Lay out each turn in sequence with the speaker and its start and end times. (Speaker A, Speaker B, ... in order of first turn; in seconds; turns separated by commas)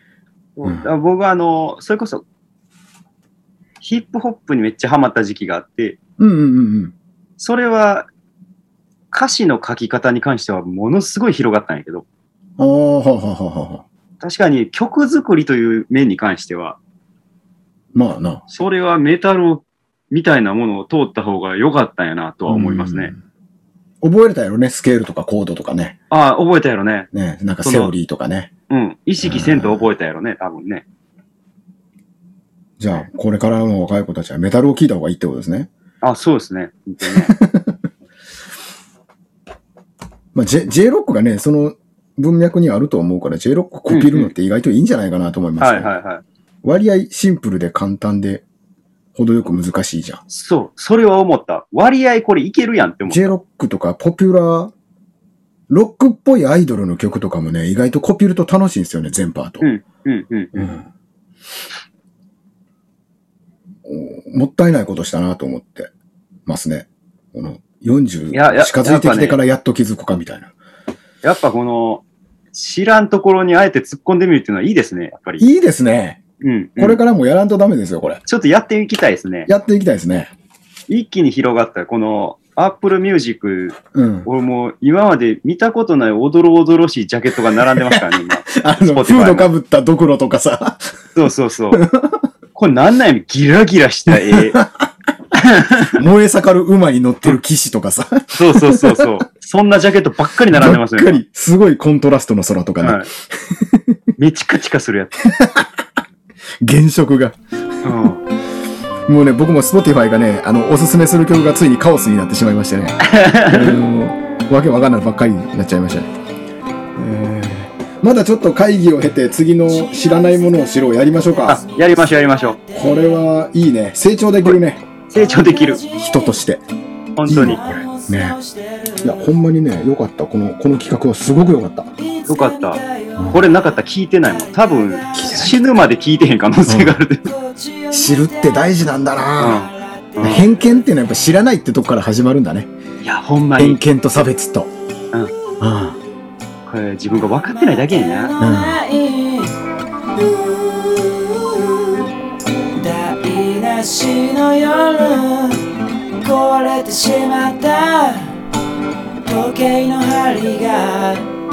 Speaker A: 0.6-2.2, Speaker A: 3.8-6.0, Speaker B: 6.2-6.9, Speaker A: 7.4-8.1, Speaker A: 9.1-12.0, Speaker B: 12.6-13.8, Speaker A: 14.2-16.8, Speaker B: 17.9-18.4, Speaker A: 18.5-23.1, Speaker B: 22.5-23.2, Speaker B: 24.0-26.0, Speaker A: 26.1-27.1, Speaker B: 27.1-28.5, Speaker A: 27.6-27.9, Speaker A: 28.7-30.8, Speaker B: 29.2-29.9, Speaker B: 32.8-35.7, Speaker A: 36.0-37.3, Speaker B: 37.0-37.8, Speaker B: 40.3-45.9, Speaker A: 43.9-44.3, Speaker A: 45.6-46.2, Speaker B: 46.6-48.4, Speaker B: 49.1-50.2, Speaker A: 50.3-53.3, Speaker B: 53.1-54.7, Speaker B: 55.7-59.7, Speaker A: 59.6-60.5, Speaker B: 60.5-60.8, Speaker B: 63.9-65.9, Speaker B: 66.5-70.5, Speaker A: 68.3-69.4, Speaker A: 71.2-75.5, Speaker B: 75.4-76.2, Speaker A: 76.4-77.0, Speaker B: 76.8-78.2, Speaker A: 78.2-79.5, Speaker B: 79.5-80.3, Speaker A: 80.9-89.5, Speaker B: 83.9-84.3, Speaker B: 87.5-90.8, Speaker A: 91.1-91.8, Speaker B: 91.7-92.2, Speaker A: 92.5-94.6, Speaker B: 94.1-94.8, Speaker A: 95.3-96.0, Speaker B: 95.9-99.2, Speaker A: 98.3-101.2, Speaker B: 100.5-104.0, Speaker A: 102.8-103.1, Speaker A: 104.2-105.3, Speaker B: 105.2-105.7, Speaker B: 106.6-107.4, Speaker A: 107.8-108.2, Speaker B: 109.1-116.1, Speaker A: 113.0-113.8, Speaker B: 117.0-121.6, Speaker C: 119.7-123.2, Speaker A: 121.5-122.6, Speaker B: 122.7-124.8, Speaker A: 125.1-125.8, Speaker C: 125.2-126.3, Speaker B: 125.9-126.6, Speaker A: 127.2-127.6, Speaker B: 127.3-128.4, Speaker C: 127.3-129.2, Speaker B: 129.0-131.9, Speaker C: 132.0-133.7, Speaker A: 132.3-132.8, Speaker A: 133.3-137.3, Speaker C: 134.2-135.6, Speaker B: 135.1-135.5, Speaker B: 136.7-137.0, Speaker C: 137.3-138.8, Speaker B: 137.9-142.7, Speaker A: 139.4-140.4, Speaker C: 139.4-140.5, Speaker A: 143.0-143.8, Speaker B: 143.6-144.7, Speaker B: 145.6-146.0, Speaker A: 146.7-148.3, Speaker C: 147.6-149.5, Speaker B: 148.4-148.8, Speaker C: 150.1-152.0, Speaker C: 152.6-155.6, Speaker C: 156.2-158.3, Speaker C: 159.2-161.3